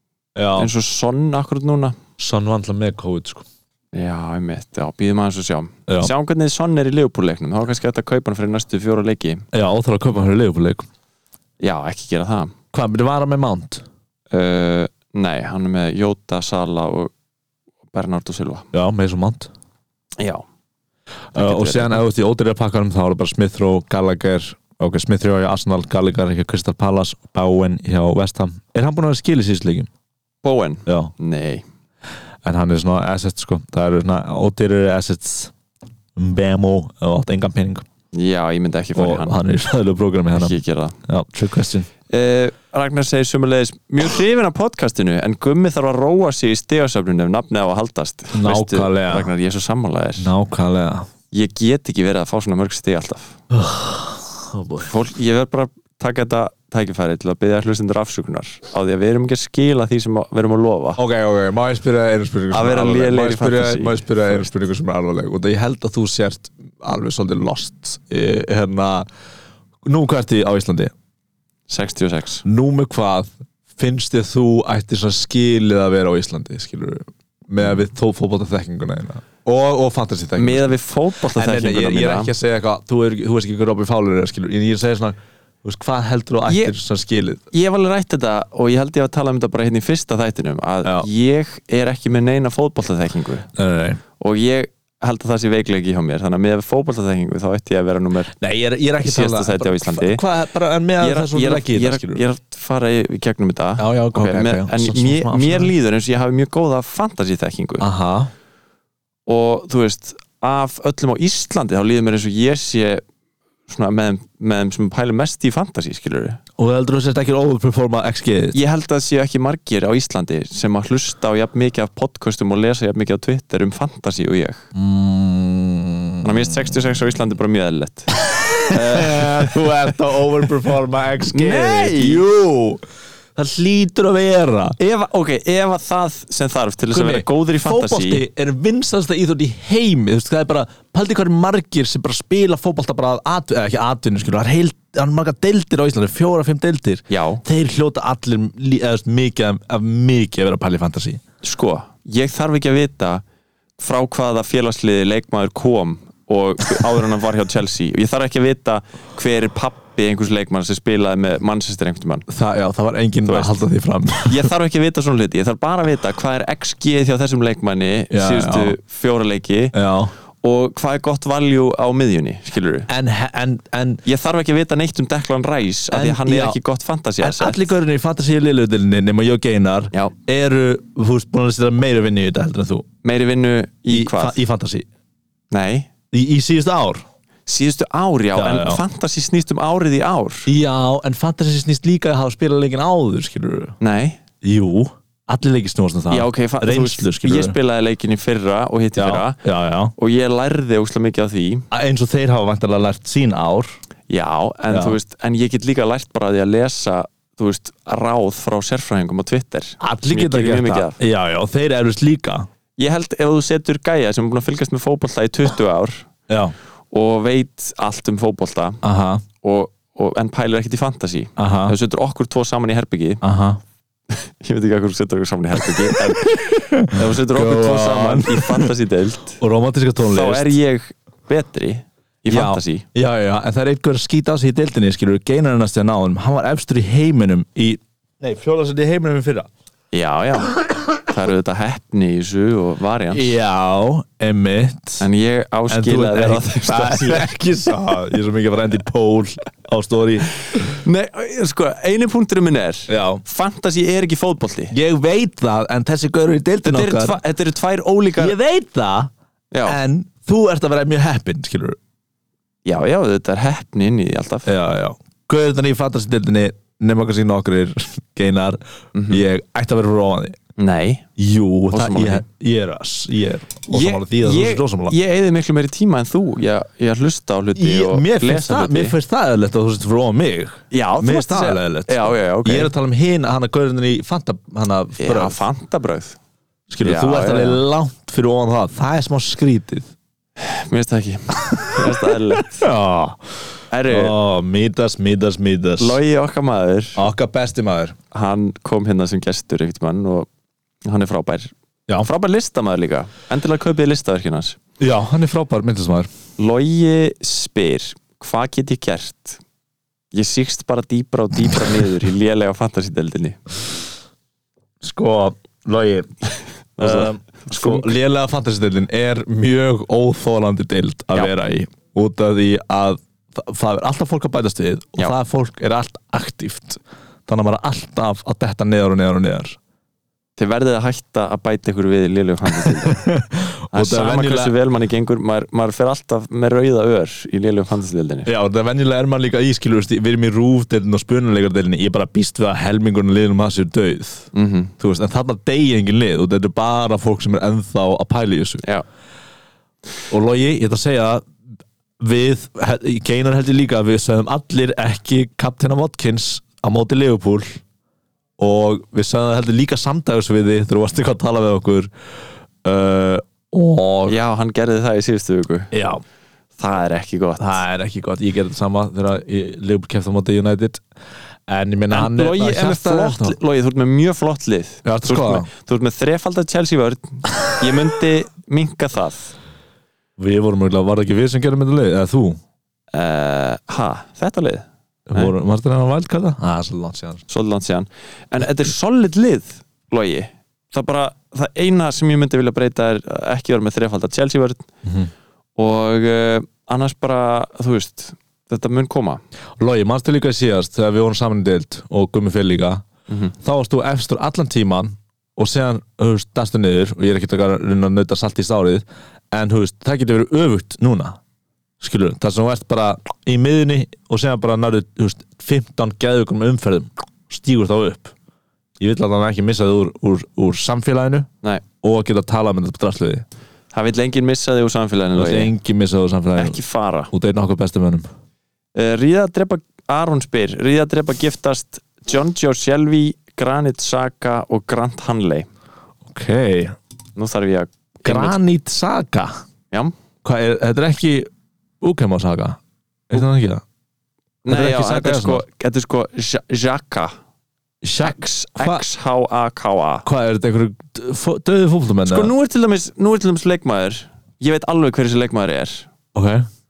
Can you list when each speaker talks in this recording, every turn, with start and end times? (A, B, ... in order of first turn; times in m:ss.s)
0:00.4-0:00.7 A
0:00.6-0:02.0 B
0:02.2-0:03.4 A
0:03.9-0:09.4 B
0:05.9-0:06.1 A
0:09.5-0:10.8 A
0:11.6-0:12.5 B
0:12.7-0:13.8 A
0:14.3-0:17.1 B
0:17.9-0:18.7 B
0:18.7-0:19.5 A
0:20.2-0:20.4 B
0:21.3-0:29.9 A
0:21.3-0:22.0 B
0:30.4-0:31.6 B
0:30.8-0:31.1 A
0:32.4-0:35.5 A
0:36.2-0:37.8 A
0:38.1-0:39.4 B
0:38.9-0:41.9 A
0:40.3-0:41.0 B
0:42.1-0:50.3 B
0:48.3-0:49.3 A
0:50.2-0:51.1 A
0:51.3-0:53.4 B
0:53.5-0:54.9 A
0:54.8-1:01.0 B
1:01.0-1:09.1 A
1:02.5-1:04.5 B
1:09.8-1:10.9 A
1:11.7-1:12.4 B
1:12.4-1:20.7 A
1:20.4-1:22.3 B
1:21.3-1:27.4 A
1:26.5-1:26.7 B
1:27.5-1:33.5 B
1:33.5-1:34.0 A
1:34.2-1:38.3 B
1:38.3-1:42.2 A
1:39.0-1:40.2 B
1:41.0-1:47.9 B
1:43.8-1:45.7 A
1:47.8-1:48.3 A
1:49.3-1:53.0 B
1:53.7-1:56.4 B
1:56.6-1:58.6 A
1:58.5-2:04.7 B
2:04.7-2:06.7 A
2:06.2-2:09.7 B
2:08.3-2:12.8 A
2:11.3-2:12.2 B
2:13.3-2:14.8 A
2:14.8-2:18.2 B
2:16.9-2:31.2 A
2:27.1-2:27.4 B
2:31.4-2:33.2 B
2:33.8-2:42.3 B
2:42.3-2:44.5 A
2:43.2-2:43.5 B
2:44.3-2:49.7 B
2:48.1-2:48.8 A
2:49.7-2:50.1 A
2:50.4-2:52.9 B
2:52.9-2:54.0 A
2:54.0-2:57.7 B
2:55.9-2:56.6 A
2:57.2-3:02.8 A
3:03.0-3:04.4 B
3:03.9-3:04.8 A
3:05.5-3:05.9 B
3:06.1-3:07.0 A
3:07.5-3:10.5 B
3:08.4-3:08.8 A
3:10.5-3:13.8 A
3:13.8-3:14.2 B
3:14.4-3:17.6 A
3:16.1-3:19.4 B
3:19.0-3:19.9 A
3:20.0-3:21.7 B
3:21.7-3:23.8 A
3:24.1-3:31.0 B
3:24.7-3:25.0 A
3:29.8-3:32.5 A
3:32.8-3:36.1 B
3:36.3-3:36.5 A
3:36.9-3:38.8 B
3:38.8-3:39.2 A
3:39.4-3:43.2 B
3:41.4-3:41.7 A
3:43.2-3:43.6 A
3:44.1-3:49.4 B
3:45.8-3:48.7 A
3:49.4-3:50.6 A
3:50.0-3:52.9 B
3:52.3-3:59.5 A
3:59.9-4:03.3 B
4:03.1-4:05.0 A
4:05.0-4:07.4 B
4:05.7-4:10.6 A
4:10.5-4:14.7 B
4:12.9-4:13.2 A
4:14.7-4:17.2 A
4:16.6-4:18.4 B
4:18.2-4:19.1 A
4:19.5-4:19.8 B
4:19.6-4:21.8 A
4:22.6-4:24.5 B
4:24.4-4:30.4 A
4:28.9-4:29.2 B
4:30.6-4:31.0 B
4:31.2-4:34.9 A
4:31.7-4:32.2 B
4:33.7-4:39.0 B
4:37.6-4:45.4 A
4:40.7-4:42.7 B
4:45.0-4:46.2 B
4:46.7-4:49.9 A
4:46.8-4:47.6 B
4:50.4-4:52.6 B
4:51.5-4:53.2 A
4:53.7-4:54.2 B
4:53.9-4:56.0 A
4:55.8-4:57.0 B
4:57.0-4:58.0 A
4:58.1-5:00.3 B
5:00.8-5:04.6 B
5:04.8-5:06.1 A
5:06.4-5:09.4 B
5:10.1-5:13.4 B
5:14.8-5:16.1 A
5:16.8-5:17.9 B
5:16.8-5:29.6 A
5:30.4-5:33.0 B
5:32.5-5:34.5 A
5:33.7-5:38.3 B
5:38.2-5:48.6 A
5:44.3-5:44.7 B
5:50.1-5:51.3 A
5:52.0-5:57.6 A
5:58.4-6:01.9 A
6:02.6-6:04.2 A
6:04.0-6:05.7 B
6:05.7-6:06.0 A
6:06.6-6:07.6 B
6:07.4-6:10.8 A
6:11.5-6:13.4 A
6:11.9-6:19.3 B
6:14.8-6:15.5 A
6:20.2-6:22.4 A
6:22.9-6:25.3 B
6:25.1-6:27.2 A
6:27.3-6:34.7 B
6:34.8-6:35.1 A
6:35.6-6:39.2 B
6:39.6-6:42.8 A
6:43.1-6:43.3 B
6:43.4-6:51.2 A
6:51.8-6:58.1 A
6:58.8-7:01.3 A
7:01.8-7:03.2 A
7:03.7-7:05.5 B
7:05.1-7:06.6 A
7:06.4-7:07.1 B
7:07.1-7:08.0 A
7:08.7-7:15.5 B
7:16.0-7:16.8 A
7:17.2-7:18.4 B
7:18.0-7:19.3 A
7:20.2-7:21.3 A
7:21.8-7:22.6 A
7:23.1-7:23.6 A
7:24.4-7:27.1 B
7:24.5-7:25.4 A
7:27.8-7:28.8 A
7:28.0-7:30.0 B
7:30.0-7:32.3 A
7:32.0-7:35.9 B
7:36.1-7:36.5 A